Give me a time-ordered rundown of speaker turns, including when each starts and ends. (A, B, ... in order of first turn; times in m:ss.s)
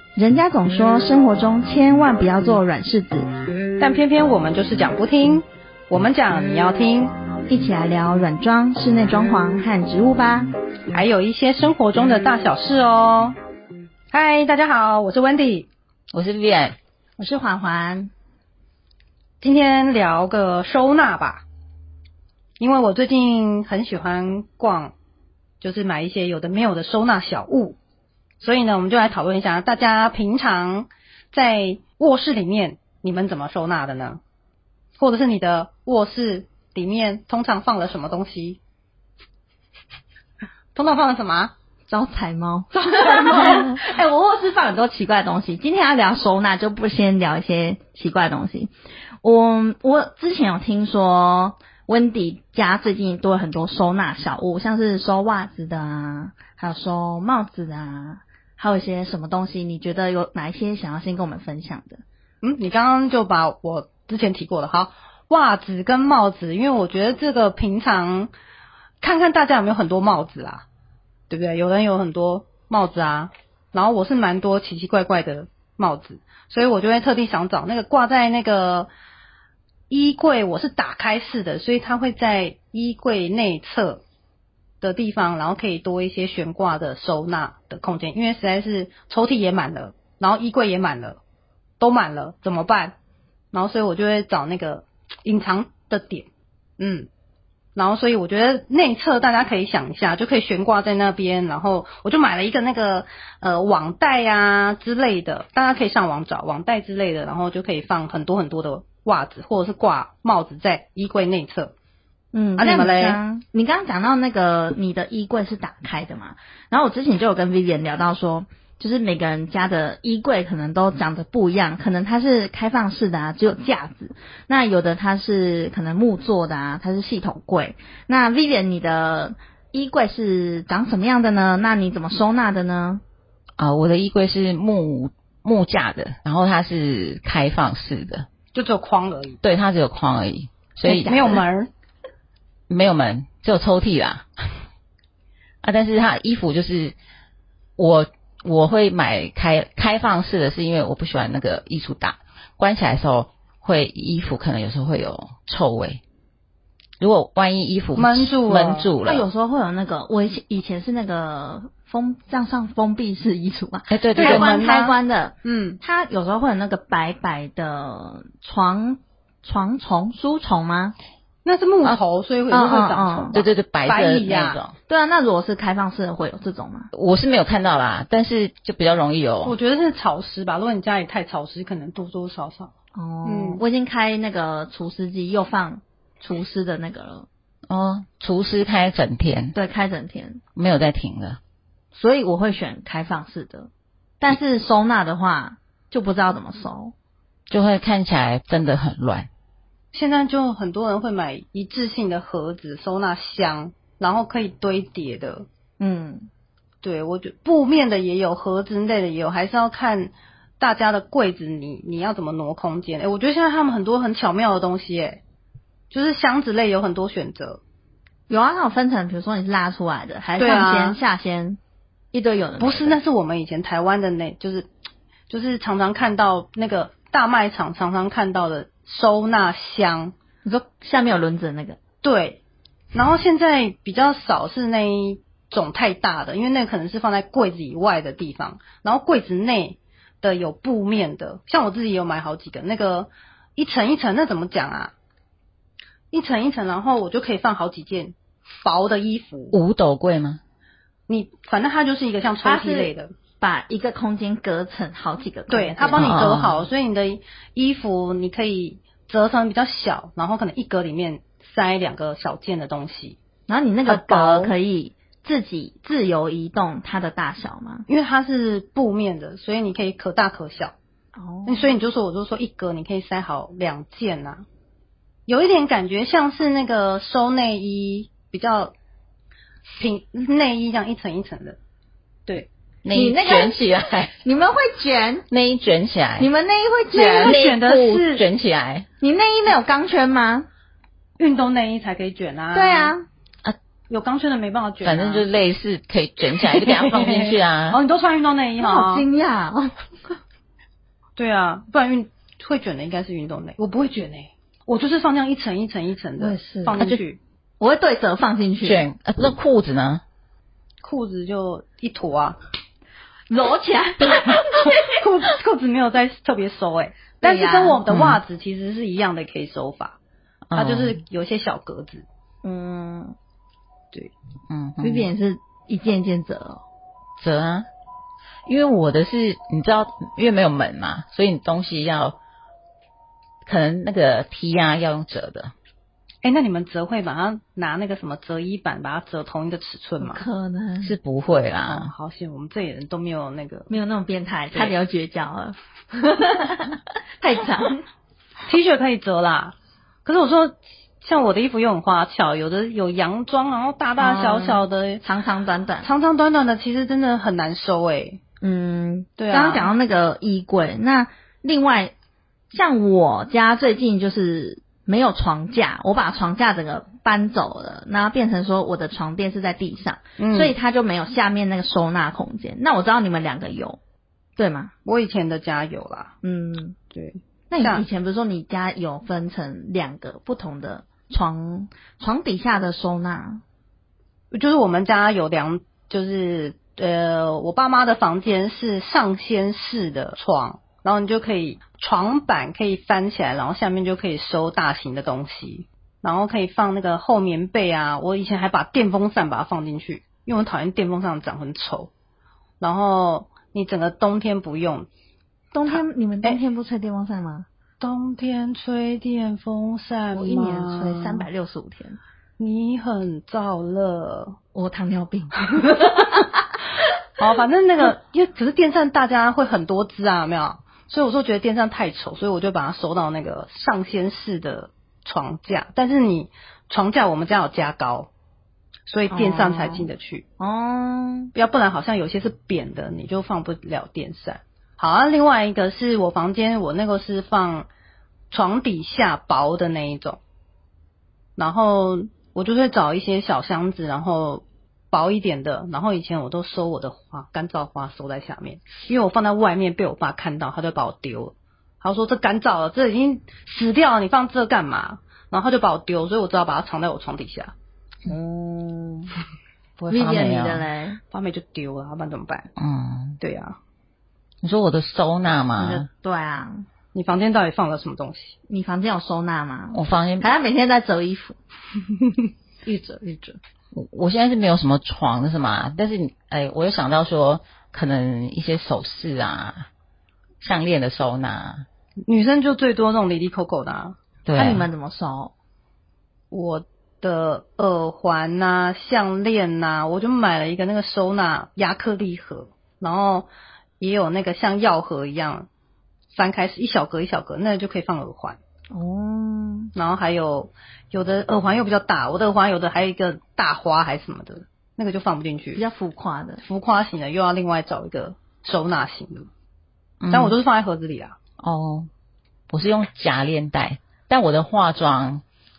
0:00.2-0:03.3 A
0:03.8-0:07.1 B
0:07.5-0:10.5 A
0:10.9-0:13.4 B
0:14.1-0:15.7 B
0:16.1-0:16.8 C
0:17.2-0:18.1 A
0:19.4-0:21.4 B
0:22.6-0:24.9 B
0:25.6-0:27.8 B
0:28.4-0:34.2 B
0:35.0-0:38.6 B
0:40.7-0:41.5 B
0:41.9-1:02.0 A
1:02.4-1:08.3 B
1:09.0-1:10.6 B
1:11.3-1:18.9 B
1:19.9-1:24.0 B
1:24.8-1:31.2 B
1:31.8-1:32.9 B
1:33.5-1:36.3 B
1:36.8-1:37.1 B
1:37.8-1:51.7 B
1:52.3-2:13.0 A
1:52.6-1:53.2 B
2:13.6-2:18.3 C
2:18.5-2:19.4 B
2:19.4-2:21.4 C
2:20.8-2:21.7 B
2:21.1-2:21.3 A
2:22.7-2:24.3 C
2:25.6-2:26.9 C
2:27.8-2:36.0 C
2:37.0-2:39.2 C
2:38.0-2:38.9 B
2:39.0-2:50.9 A
2:43.9-2:44.7 C
2:44.2-2:45.8 B
2:51.4-2:54.6 B
2:52.5-2:53.4 A
2:53.3-2:54.7 C
2:54.9-2:56.9 A
2:56.9-2:59.6 C
2:59.4-3:02.7 B
3:02.9-3:07.3 A
3:03.2-3:03.6 B
3:07.7-3:09.6 C
3:09.5-3:10.4 A
3:10.6-3:11.4 C
3:11.9-3:13.7 A
3:14.2-3:16.9 A
3:17.5-3:19.3 C
3:19.9-3:25.5 B
3:25.8-3:26.3 A
3:26.8-3:35.2 B
3:35.9-3:37.6 B
3:38.3-3:41.6 A
3:40.4-3:41.0 B
3:42.1-3:43.0 A
3:42.6-3:44.7 B
3:45.3-3:50.1 B
3:50.4-3:51.8 A
3:52.0-3:52.4 B
3:52.9-4:04.9 B
4:06.1-4:09.5 B
4:09.5-4:10.4 C
4:11.1-4:13.1 B
4:12.4-4:16.3 A
4:15.5-4:23.2 B
4:15.9-4:16.6 C
4:23.5-4:27.9 A
4:23.8-4:24.5 B
4:27.9-4:30.7 B
4:31.2-4:31.7 A
4:31.4-4:34.4 B
4:35.3-4:38.7 B
4:39.8-4:41.6 B
4:42.8-4:44.1 C
4:42.9-4:45.2 A
4:45.3-4:46.3 C
4:46.2-4:47.4 A
4:46.9-4:48.3 B
4:47.0-4:48.9 C
4:49.0-4:50.5 A
4:51.2-4:52.9 B
4:52.5-4:53.0 A
4:53.9-4:55.2 B
4:54.8-4:57.8 C
4:56.4-4:59.0 B
4:58.6-4:59.7 A
5:01.2-5:07.2 B
5:06.2-5:06.8 A
5:07.6-5:08.8 A
5:08.6-5:10.0 C
5:10.8-5:12.4 B
5:13.3-5:14.8 A
5:14.0-5:20.0 B
5:17.2-5:17.8 A
5:17.9-5:18.2 C
5:20.5-5:21.0 C
5:20.5-5:22.0 B
5:22.4-5:23.2 A
5:24.5-5:25.1 C
5:24.8-5:26.6 A
5:27.2-5:27.7 C
5:28.4-5:32.2 C
5:33.4-5:35.5 C
5:36.2-5:40.2 B
5:40.0-5:40.9 A
5:40.8-5:41.9 C
5:41.6-5:43.7 B
5:43.7-5:47.8 A
5:48.5-5:55.0 B
5:54.0-5:55.9 A
5:55.8-5:58.2 B
5:58.4-6:01.9 A
5:59.2-5:59.7 B
6:02.5-6:13.8 A
6:10.2-6:10.5 B
6:14.4-6:14.7 A
6:14.8-6:16.1 B
6:16.2-6:16.8 A
6:16.9-6:17.8 B
6:17.5-6:23.4 A
6:24.3-6:41.9 B
6:42.6-6:44.9 B
6:45.5-6:47.5 A
6:45.6-6:46.4 B
6:47.8-6:51.2 B
6:50.1-6:52.0 A
6:52.4-6:54.4 B
6:54.5-6:56.4 A
6:57.2-7:08.1 B
7:08.9-7:10.2 B
7:09.1-7:09.9 A
7:10.4-7:11.3 A
7:11.3-7:17.7 B
7:18.3-7:20.2 B
7:21.4-7:37.5 B
7:38.0-7:39.1 A
7:39.8-7:40.6 C
7:39.9-7:41.0 A
7:41.1-7:42.5 B
7:42.6-7:43.2 C
7:43.2-7:43.6 B
7:44.4-7:45.9 C
7:45.6-7:46.7 A
7:46.9-7:48.3 B
7:48.5-7:51.4 A
7:49.7-7:50.3 C
7:52.6-7:53.4 A
7:53.7-7:59.7 C
8:00.4-8:01.6 C
8:02.1-8:04.0 B
8:04.2-8:04.7 C
8:04.4-8:05.3 A
8:06.3-8:13.3 B
8:13.8-8:15.5 B
8:16.1-8:18.4 B
8:18.7-8:19.7 A
8:19.7-8:25.6 B
8:25.6-8:26.4 A
8:26.4-8:29.3 B
8:30.0-8:30.3 C
8:30.1-8:31.2 B
8:31.4-8:31.9 C
8:32.5-8:35.2 C